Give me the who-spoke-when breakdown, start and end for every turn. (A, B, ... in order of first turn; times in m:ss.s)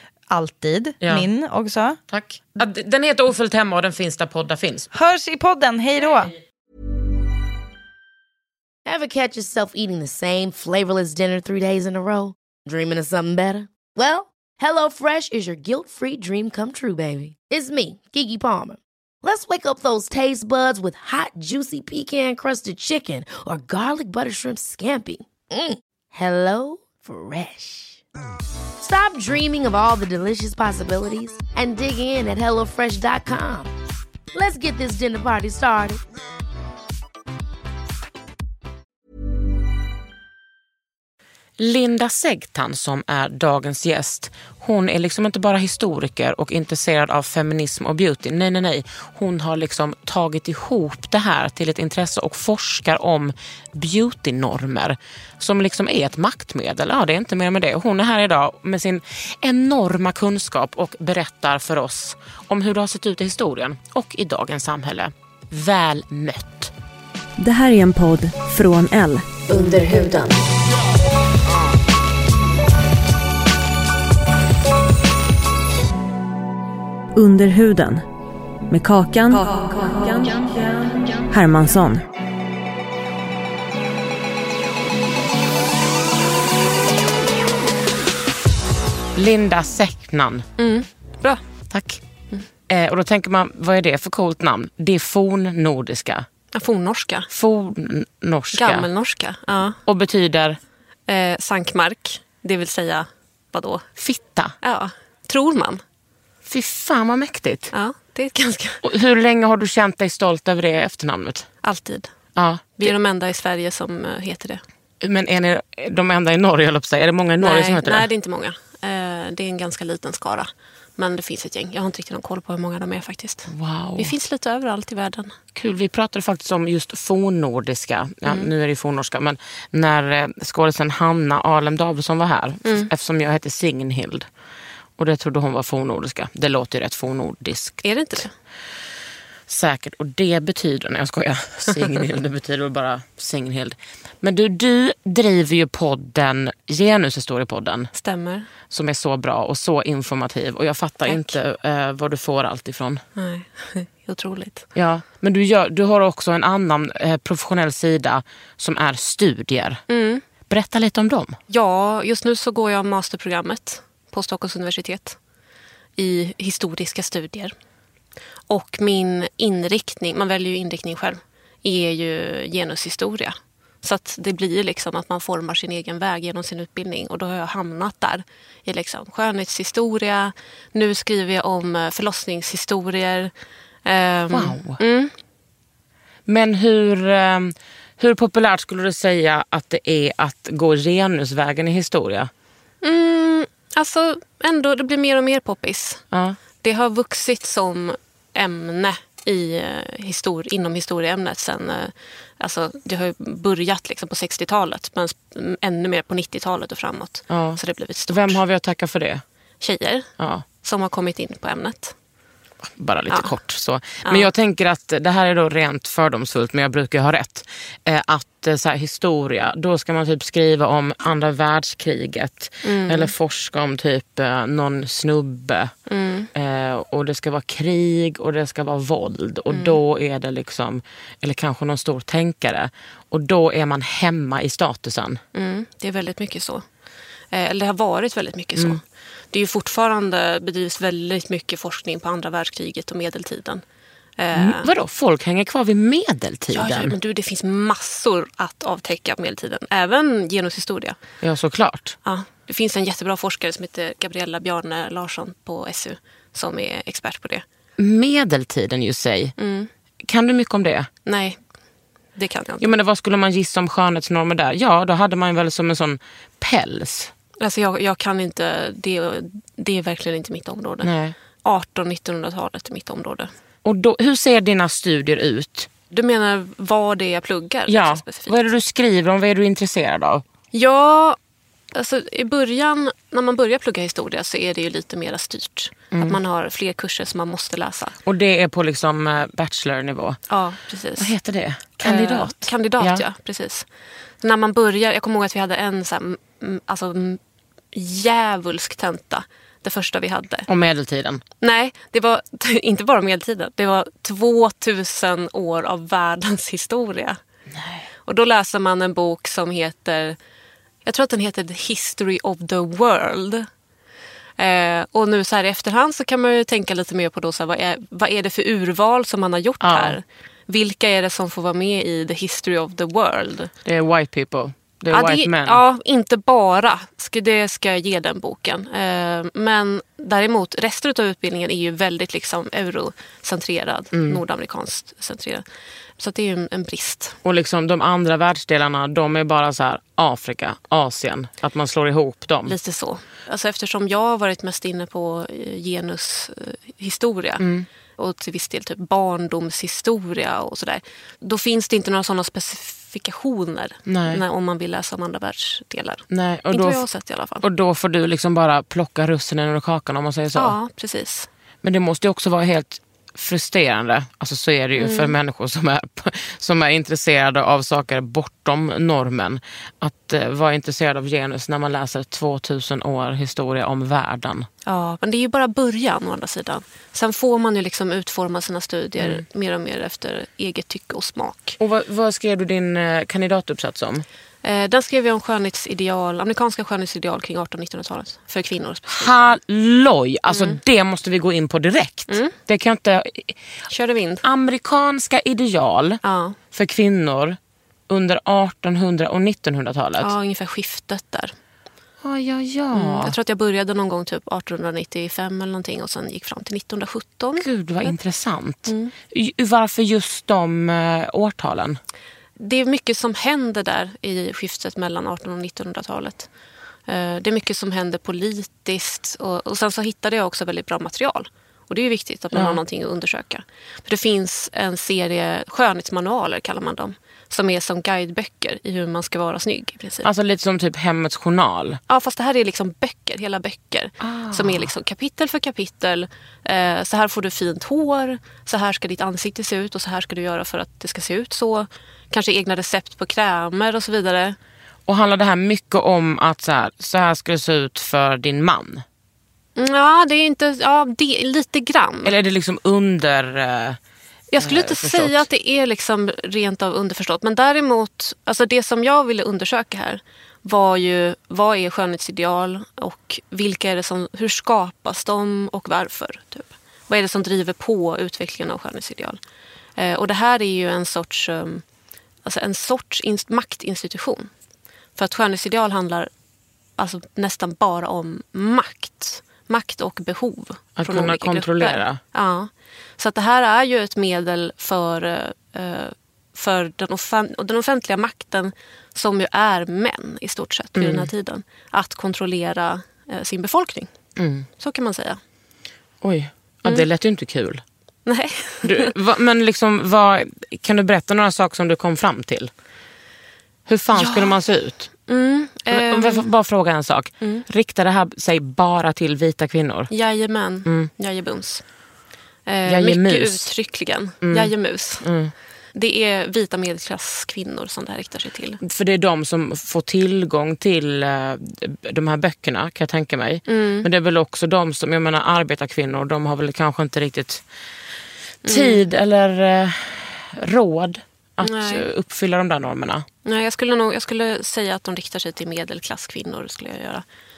0:00.3-0:02.0 A
0:01.0-0:01.3 B
0:02.1-0:04.9 B
0:04.9-0:06.3 A
0:08.8-0:28.0 C
0:28.8-0:33.7 C
0:34.3-0:36.0 C
0:41.6-1:06.7 B
1:07.4-1:10.4 D
1:17.1-1:18.0 D
1:18.7-1:22.0 D
1:29.1-1:30.5 B
1:30.6-1:31.4 E
1:31.7-1:32.0 B
1:32.7-1:36.3 B
1:36.5-1:37.3 E
1:37.3-1:38.9 B
1:38.5-1:39.8 E
1:39.8-1:40.6 B
1:41.1-1:43.9 E
1:44.0-1:44.5 B
1:44.6-1:45.8 E
1:46.5-1:47.7 B
1:47.7-1:48.8 E
1:48.8-1:51.5 B
1:51.6-1:52.1 E
1:52.4-1:52.9 B
1:52.8-1:54.6 E
1:55.0-1:58.0 B
1:57.4-2:05.4 E
2:03.5-2:04.1 B
2:05.5-2:14.3 B
2:08.2-2:08.5 E
2:15.0-2:18.2 B
2:17.8-2:18.3 E
2:19.5-2:27.9 B
2:28.0-2:28.5 E
2:28.7-2:33.0 B
2:31.0-2:31.4 E
2:33.2-2:34.6 E
2:34.7-2:39.8 B
2:39.9-2:40.2 E
2:40.5-2:41.4 B
2:41.5-2:45.2 E
2:46.0-2:47.5 E
2:48.5-3:03.3 E
3:03.8-3:05.1 E
3:04.3-3:04.8 B
3:06.2-3:12.3 B
3:12.8-3:16.0 E
3:16.1-3:16.4 B
3:16.6-3:28.4 E
3:27.3-3:29.2 B
3:29.6-3:30.1 E
3:30.2-3:30.4 B
3:30.6-3:31.9 E
3:32.8-3:45.7 B
3:42.6-3:43.1 E
3:45.9-3:46.3 E
3:46.3-3:55.2 B
3:49.5-3:49.8 E
3:55.3-3:56.6 E
3:57.3-4:03.6 E
4:04.2-4:04.7 E
4:04.3-4:06.9 B
4:06.5-4:11.0 E
4:11.2-4:12.0 B
4:12.0-4:17.4 E
4:17.8-4:19.3 B
4:19.4-4:19.7 E
4:20.1-4:20.9 B
4:21.0-4:21.4 E
4:22.2-4:22.7 E
4:22.6-4:27.1 B
4:27.4-4:30.9 E
4:30.8-4:31.2 B
4:31.4-4:33.3 E
4:33.6-4:35.7 B
4:35.9-4:38.4 E
4:37.7-4:40.2 B
4:40.5-4:41.2 E
4:41.7-4:48.0 E
4:45.9-4:46.2 B
4:48.0-4:50.2 B
4:50.3-4:51.1 E
4:51.0-4:53.0 B
4:51.8-4:53.7 E
4:54.2-4:57.2 E
4:57.7-5:00.5 E
5:00.5-5:01.2 B
5:01.4-5:07.2 E
5:07.5-5:07.9 B
5:08.0-5:10.2 E
5:10.8-5:13.5 E
5:14.4-5:23.5 E
5:19.6-5:20.0 B
5:23.6-5:25.6 B
5:24.9-5:35.4 E
5:33.9-5:34.2 B
5:36.0-5:37.2 E
5:37.2-5:42.5 B
5:42.4-5:47.4 E
5:47.4-5:47.7 B
5:48.0-5:57.4 E
5:53.8-5:54.2 B
5:56.1-5:56.8 B
5:57.4-6:00.6 B
6:00.3-6:01.3 E
6:01.6-6:14.5 B
6:04.8-6:05.1 E
6:14.6-6:21.6 E
6:19.0-6:19.2 B
6:21.6-6:24.0 B
6:24.4-6:29.4 E
6:28.9-6:33.4 B
6:30.3-6:30.6 E
6:32.1-6:32.3 E
6:33.7-6:34.2 E
6:34.2-6:36.0 B
6:36.0-6:36.4 E
6:36.5-6:37.4 B
6:37.9-6:40.1 B
6:40.0-6:41.3 E
6:42.0-6:43.1 B
6:42.7-6:48.0 E
6:47.4-6:51.8 B
6:48.6-6:48.9 E
6:52.4-6:56.3 E
6:56.9-7:10.1 E
7:02.3-7:02.6 B
7:10.0-7:11.8 B
7:11.9-7:24.4 E
7:14.0-7:14.7 B
7:24.9-7:28.8 B
7:29.6-7:32.1 E
7:32.0-7:33.8 B
7:34.3-7:49.2 E
7:34.4-7:35.2 B
7:49.8-7:51.6 E
7:52.2-7:54.3 E
7:55.0-7:56.1 E
7:56.8-8:13.9 E
8:00.8-8:02.0 B
8:10.8-8:11.1 B
8:14.2-8:14.5 B
8:14.6-8:15.2 E
8:16.0-8:17.6 B
8:18.0-8:18.9 E
8:18.6-8:22.5 B
8:23.7-8:24.9 B
8:23.9-8:24.4 E
8:25.1-8:26.2 E
8:25.7-8:29.9 B
8:29.9-8:31.6 E
8:30.6-8:30.9 B
8:32.4-8:35.1 E
8:32.6-8:33.5 B
8:34.2-8:35.3 B
8:35.7-8:38.6 E
8:38.6-8:47.4 B
8:43.5-8:43.8 E
8:48.4-8:53.0 B
8:48.4-8:48.8 E
8:51.4-8:51.8 E
8:53.2-8:57.0 E